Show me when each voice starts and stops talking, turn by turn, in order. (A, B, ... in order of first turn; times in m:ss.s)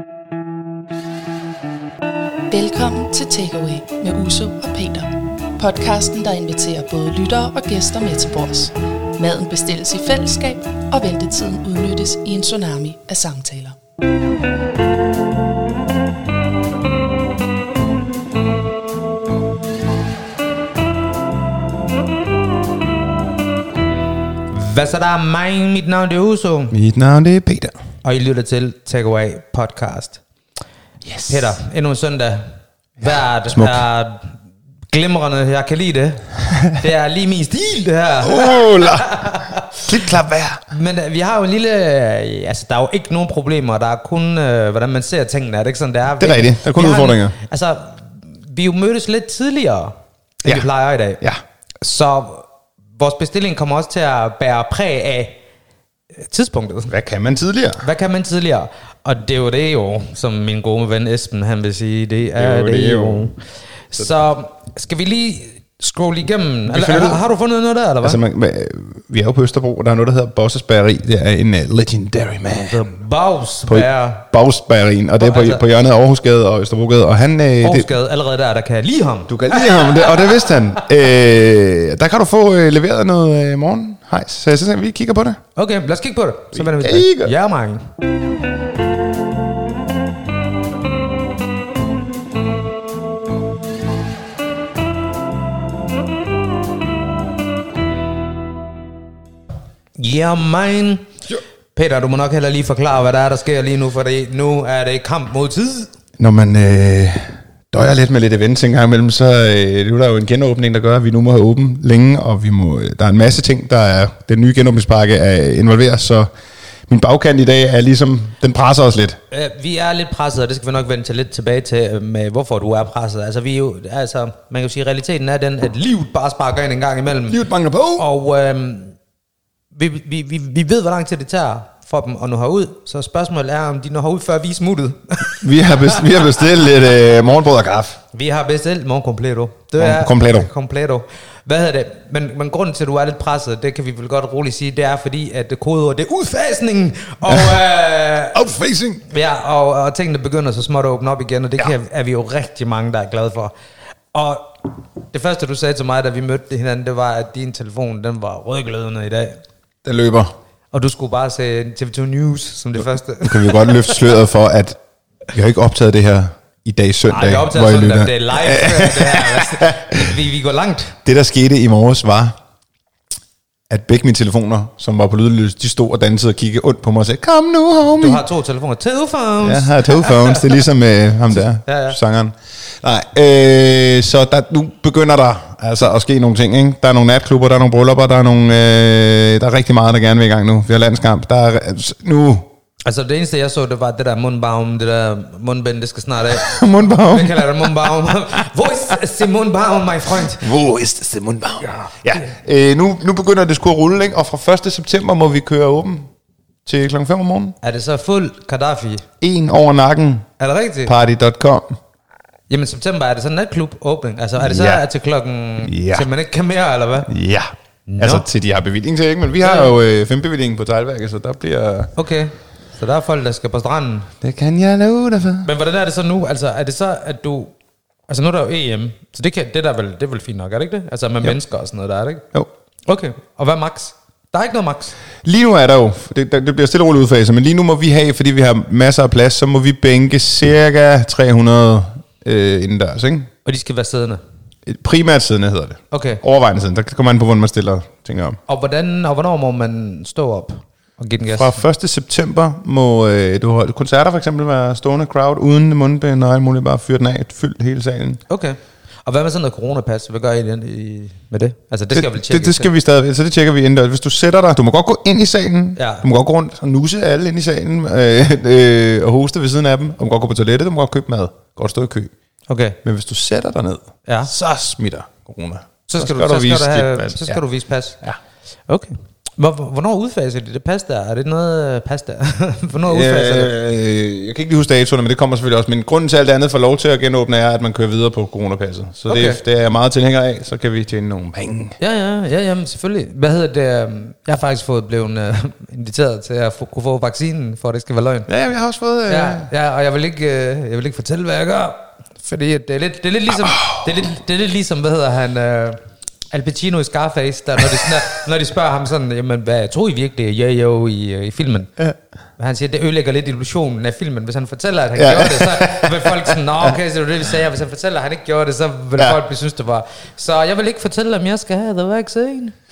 0:02.5-0:13.8 A
0:24.5-0:26.8 B
0:26.7-0:27.8 C
0:28.0-0:30.2 B
0:31.0-0:31.6 C
0:31.3-0:34.4 B
0:33.5-0:33.8 C
0:34.9-0:39.8 B
0:38.2-0:40.6 C
0:40.7-0:51.2 B
0:46.2-0:47.4 C
0:51.8-0:52.5 B
0:53.0-0:55.4 B
0:56.2-0:56.9 B
0:56.9-0:57.8 C
0:57.8-1:03.4 B
1:02.4-1:03.3 C
1:03.9-1:08.2 B
1:06.7-1:07.2 C
1:08.0-1:12.9 C
1:12.6-1:14.2 B
1:13.7-1:17.9 C
1:15.2-1:15.6 B
1:17.6-1:20.8 B
1:19.3-1:25.4 C
1:25.6-1:27.8 B
1:26.5-1:27.3 C
1:40.0-1:41.1 B
1:41.7-1:45.9 B
1:46.2-1:56.3 C
1:56.9-1:59.2 C
1:59.3-2:07.4 B
2:07.3-2:08.1 C
2:08.0-2:09.0 B
2:09.7-2:16.4 B
2:15.4-2:18.0 C
2:18.1-2:28.4 B
2:19.8-2:20.5 C
2:27.3-2:27.6 C
2:28.3-2:29.0 C
2:29.1-2:33.5 B
2:34.1-2:39.4 B
2:39.8-2:40.3 C
2:40.7-2:44.1 B
2:43.2-2:44.8 C
2:45.3-2:50.1 C
2:47.1-2:51.0 B
2:51.0-2:52.4 C
2:53.7-2:58.2 C
2:58.0-3:00.6 B
2:59.4-3:12.5 C
3:01.3-3:02.0 B
3:12.9-3:20.5 B
3:16.3-3:18.2 C
3:20.2-3:26.1 C
3:26.7-3:27.6 C
3:27.6-3:29.1 B
3:29.2-3:30.3 C
3:30.4-3:31.0 B
3:30.9-3:31.8 C
3:32.5-3:37.1 B
3:34.4-3:34.8 C
3:35.6-3:36.1 C
3:37.1-3:37.5 C
3:37.9-3:38.3 B
3:38.0-3:41.9 C
3:39.4-3:39.7 B
3:42.0-3:44.1 B
3:44.2-3:45.5 C
3:45.4-3:47.5 B
3:48.1-3:52.3 B
3:52.9-3:55.0 B
3:55.2-4:03.3 C
4:03.4-4:04.2 B
4:04.7-4:08.4 C
4:05.9-4:06.2 B
4:08.5-4:11.6 B
4:11.3-4:18.2 C
4:18.3-4:22.7 B
4:21.9-4:32.1 C
4:25.8-4:26.0 B
4:32.5-4:32.8 B
4:32.8-4:37.4 C
4:34.1-4:34.3 B
4:35.9-4:38.0 B
4:38.7-4:43.5 B
4:42.9-4:51.8 C
4:49.1-4:49.4 B
4:51.8-4:58.3 B
4:58.3-4:59.5 C
4:59.1-5:05.8 B
5:03.3-5:04.1 C
5:06.3-5:11.7 B
5:12.4-5:22.6 B
5:15.0-5:16.8 C